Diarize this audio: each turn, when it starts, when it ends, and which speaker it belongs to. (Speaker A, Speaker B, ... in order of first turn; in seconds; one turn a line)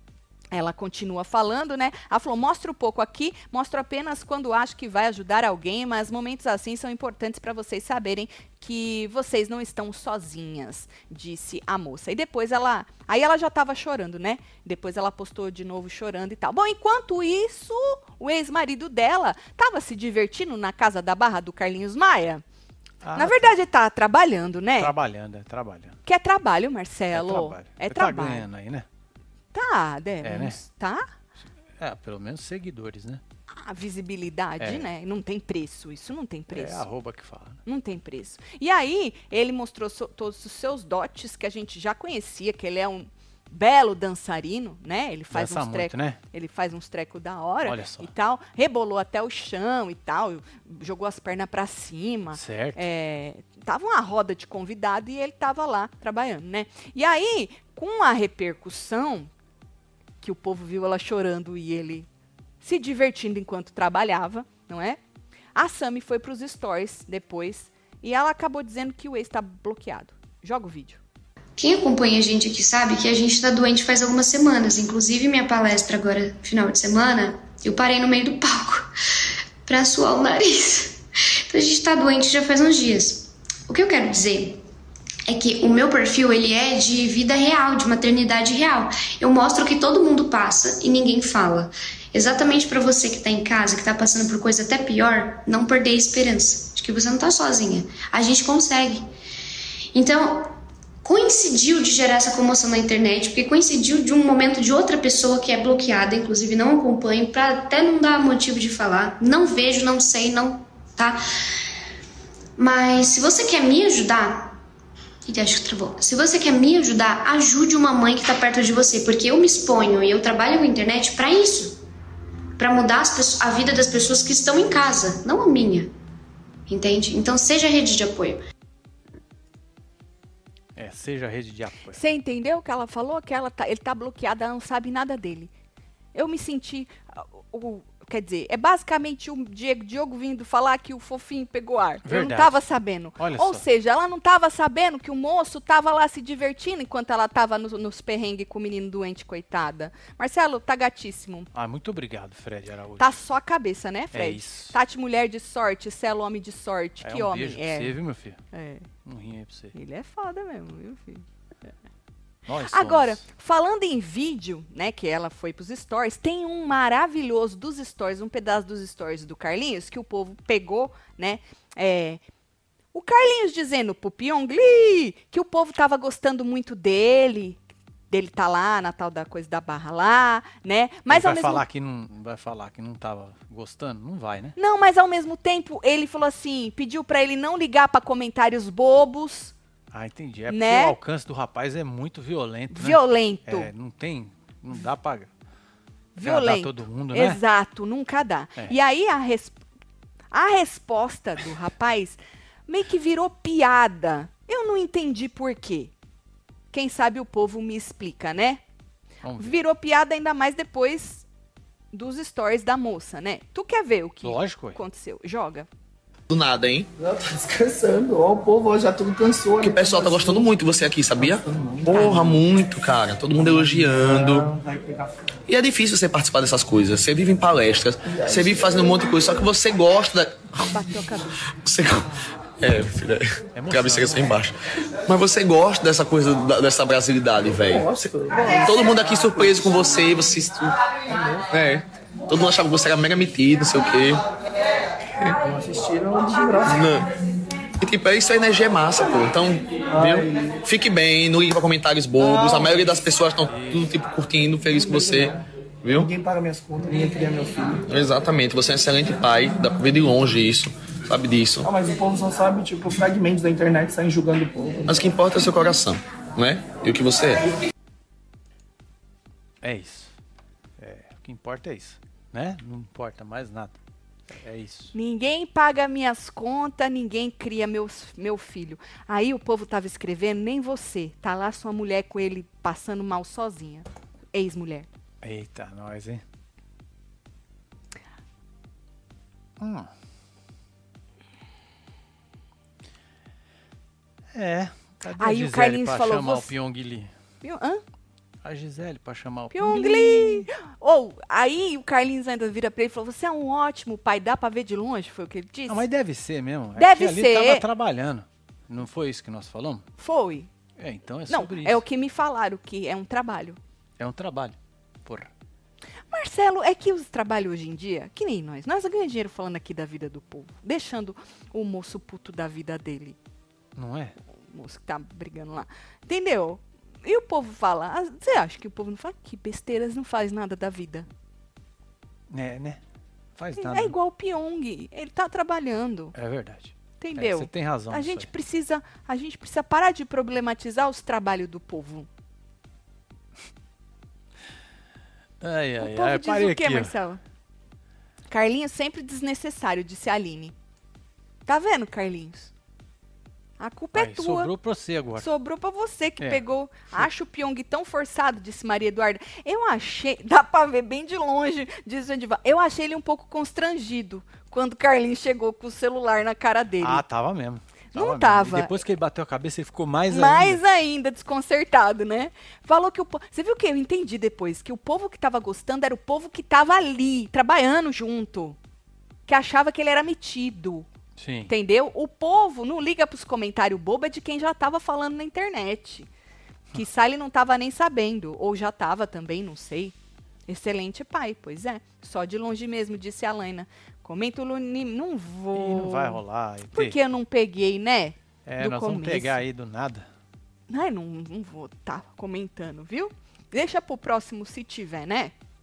Speaker A: 0.5-22.4
Speaker B: 23.0-23.6
Speaker A: 23.1-24.9
Speaker B: 24.8-26.0
Speaker A: 26.1-28.5
Speaker B: 27.1-28.9
Speaker A: 29.5-31.1
Speaker B: 30.2-30.6
Speaker B: 31.4-33.2
Speaker A: 33.6-36.9
Speaker B: 34.6-34.9
Speaker B: 36.5-37.6
Speaker A: 37.6-59.3
Speaker B: 45.3-46.2
Speaker B: 47.6-48.1
Speaker B: 52.3-52.8
Speaker A: 60.2-62.1
Speaker A: 62.6-65.0
Speaker A: 65.5-71.0
Speaker C: 71.6-78.9
Speaker C: 79.7-84.6
Speaker C: 85.3-99.0
Speaker C: 99.9-111.2
Speaker C: 112.6-114.5
Speaker C: 115.2-121.8
Speaker C: 122.6-125.9
Speaker C: 126.7-128.4
Speaker B: 130.8-132.0
Speaker A: 131.9-135.5
Speaker A: 136.1-151.5
Speaker B: 142.0-142.6
Speaker B: 143.2-143.6
Speaker B: 151.5-153.1
Speaker A: 153.0-158.0
Speaker B: 154.1-154.8
Speaker B: 157.0-158.4
Speaker A: 158.5-158.9
Speaker B: 159.0-159.7
Speaker A: 159.7-161.2
Speaker B: 162.4-163.2
Speaker A: 162.6-172.2
Speaker A: 172.9-177.6
Speaker A: 178.1-181.6
Speaker B: 181.1-184.6
Speaker A: 184.6-189.5
Speaker B: 189.9-195.3
Speaker A: 190.5-191.0
Speaker A: 192.7-193.7
Speaker A: 196.2-199.6
Speaker B: 196.2-197.4
Speaker A: 200.3-205.9
Speaker A: 206.7-208.6
Speaker B: 209.2-209.6
Speaker A: 209.4-211.2
Speaker A: 211.9-215.7
Speaker B: 214.2-214.8
Speaker D: 216.3-216.9
Speaker E: 217.0-222.4
Speaker D: 219.6-224.5
Speaker E: 223.4-225.3
Speaker D: 225.5-230.6
Speaker E: 228.0-229.4
Speaker A: 230.6-231.4
Speaker D: 231.6-240.7
Speaker B: 233.6-234.4
Speaker E: 237.7-239.9
Speaker E: 241.1-241.4
Speaker D: 241.5-244.2
Speaker E: 245.4-246.8
Speaker D: 246.6-247.1
Speaker D: 247.8-256.1
Speaker E: 249.9-250.6
Speaker E: 252.2-252.9
Speaker B: 253.4-253.9
Speaker E: 254.7-255.3
Speaker E: 255.9-257.8
Speaker D: 257.9-261.7
Speaker E: 261.6-265.1
Speaker D: 264.9-267.5
Speaker B: 269.6-270.1
Speaker B: 270.8-273.8
Speaker B: 274.3-274.9
Speaker A: 274.9-284.9
Speaker B: 285.2-286.2
Speaker B: 289.6-289.9
Speaker B: 294.3-297.1
Speaker A: 295.1-296.5
Speaker A: 297.4-297.8
Speaker B: 298.4-300.5
Speaker A: 299.5-305.9
Speaker B: 305.7-309.9
Speaker A: 306.8-307.6
Speaker A: 310.0-310.5
Speaker B: 310.8-311.8
Speaker A: 311.3-313.6
Speaker B: 314.0-315.3
Speaker A: 316.1-323.2
Speaker B: 323.8-324.1
Speaker A: 324.5-331.1
Speaker B: 332.3-332.8
Speaker B: 333.4-333.9
Speaker A: 333.6-336.1
Speaker B: 336.1-338.3
Speaker A: 337.0-342.1
Speaker B: 345.4-346.9
Speaker A: 345.8-347.2
Speaker A: 348.3-350.5
Speaker A: 351.4-352.5
Speaker A: 353.6-354.5
Speaker B: 353.9-355.3
Speaker A: 355.1-367.0
Speaker B: 356.2-357.1
Speaker B: 366.8-370.6
Speaker A: 367.9-368.8
Speaker A: 370.1-378.6
Speaker A: 379.3-380.9
Speaker B: 381.2-381.5
Speaker A: 381.5-386.1
Speaker A: 386.7-389.9
Speaker A: 390.5-399.4
Speaker B: 395.5-397.0
Speaker B: 398.4-400.1
Speaker A: 400.7-405.3